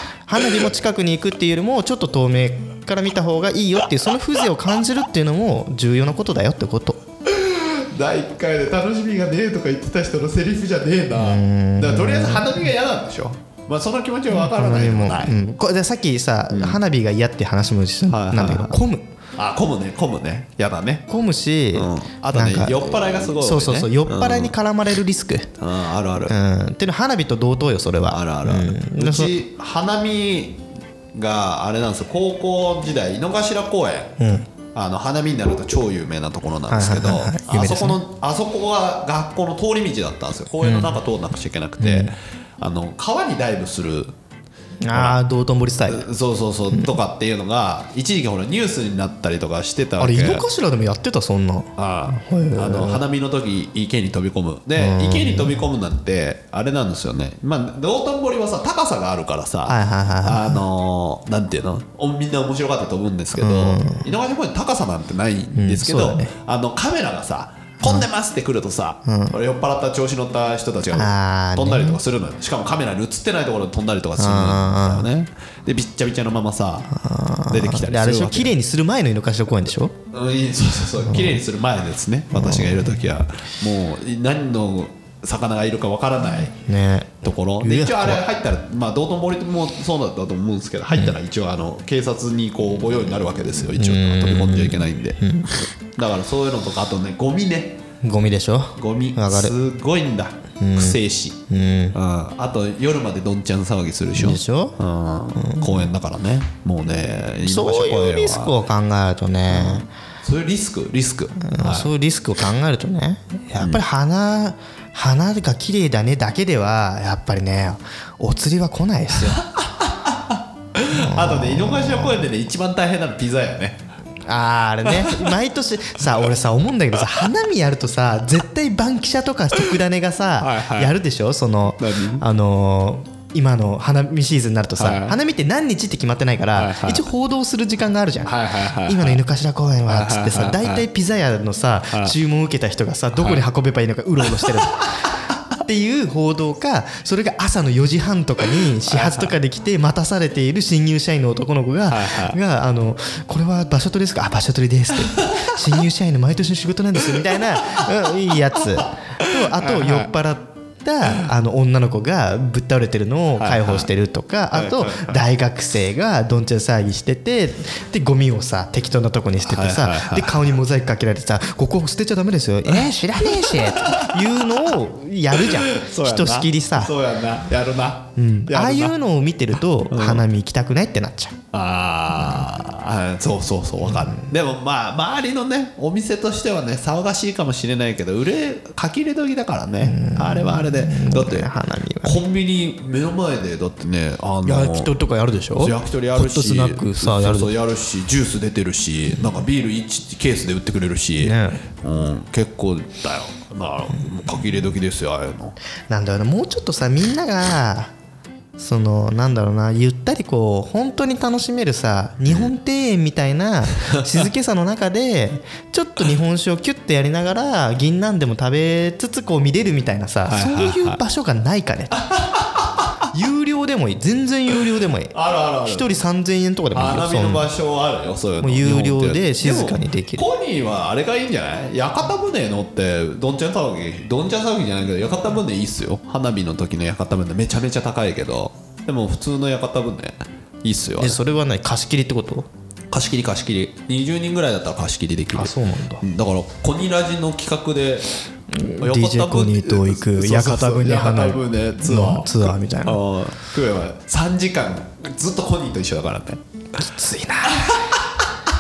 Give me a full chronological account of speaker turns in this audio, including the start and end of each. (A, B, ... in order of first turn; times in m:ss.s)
0:00.3-0:07.0 A
0:07.3-0:15.4 B
0:11.2-0:12.7 A
0:14.3-0:19.1 A
0:16.5-0:16.8 B
0:18.1-0:18.8 B
0:19.4-0:21.1 B
0:21.1-0:25.5 A
0:21.7-0:24.6 B
0:25.6-0:26.4 B
0:26.3-0:29.4 A
0:28.1-0:34.2 B
0:34.2-0:34.5 A
0:34.7-0:44.2 B
0:36.7-0:38.0 A
0:40.6-0:41.0 A
0:41.8-0:42.1 A
0:44.8-0:46.1 A
0:44.9-0:45.2 B
0:45.8-0:50.5 B
0:50.0-0:53.0 A
0:51.8-1:16.9 B
0:54.8-0:55.6 A
0:59.7-1:00.6 A
1:03.4-1:04.1 A
1:05.6-1:06.4 A
1:09.1-1:09.4 A
1:10.9-1:12.0 A
1:14.2-1:15.1 A
1:16.9-1:20.0 A
1:17.5-1:18.5 B
1:20.1-1:26.6 B
1:22.3-1:23.0 A
1:26.6-1:28.2 A
1:27.2-1:35.2 B
1:33.8-1:35.5 A
1:35.9-1:37.8 B
1:38.0-1:39.6 A
1:38.8-1:41.4 B
1:40.6-1:42.0 A
1:41.9-1:48.6 B
1:44.2-1:44.8 A
1:45.4-1:45.9 A
1:47.2-1:49.9 A
1:49.5-1:51.9 B
1:51.4-1:59.5 A
1:53.6-1:53.8 B
1:59.4-2:03.8 B
2:00.8-2:02.3 A
2:04.2-2:56.9 A
2:04.9-2:05.4 B
2:10.4-2:10.9 B
2:11.8-2:12.2 B
2:14.8-2:15.2 B
2:16.5-2:17.1 B
2:18.3-2:19.2 B
2:19.9-2:20.9 B
2:23.2-2:23.4 B
2:24.4-2:25.1 B
2:28.9-2:29.4 B
2:31.9-2:32.4 B
2:35.2-2:35.6 B
2:37.1-2:38.9 B
2:39.4-2:40.1 B
2:43.4-2:43.9 B
2:44.5-2:45.2 B
2:49.5-2:50.5 B
2:52.7-2:54.7 B
2:55.3-2:59.0 B
2:58.2-3:01.4 A
2:59.9-3:00.2 B
3:01.5-3:11.5 B
3:02.1-3:02.6 A
3:03.9-3:04.3 A
3:09.8-3:12.2 A
3:12.0-3:14.9 B
3:14.4-3:17.5 A
3:15.6-3:25.6 B
3:21.2-3:21.6 A
3:25.9-3:27.9 A
3:28.6-3:42.0 A
3:32.2-3:32.5 B
3:33.8-3:34.2 B
3:40.3-3:41.0 B
3:42.0-3:42.9 B
3:43.1-3:47.5 A
3:45.1-3:45.9 B
3:46.7-4:01.2 B
3:48.4-3:50.3 A
4:01.0-4:02.5 A
4:02.9-4:08.1 B
4:05.3-4:06.0 A
4:08.5-4:13.0 A
4:08.8-4:16.4 B
4:16.8-4:18.1 A
4:17.5-4:18.4 B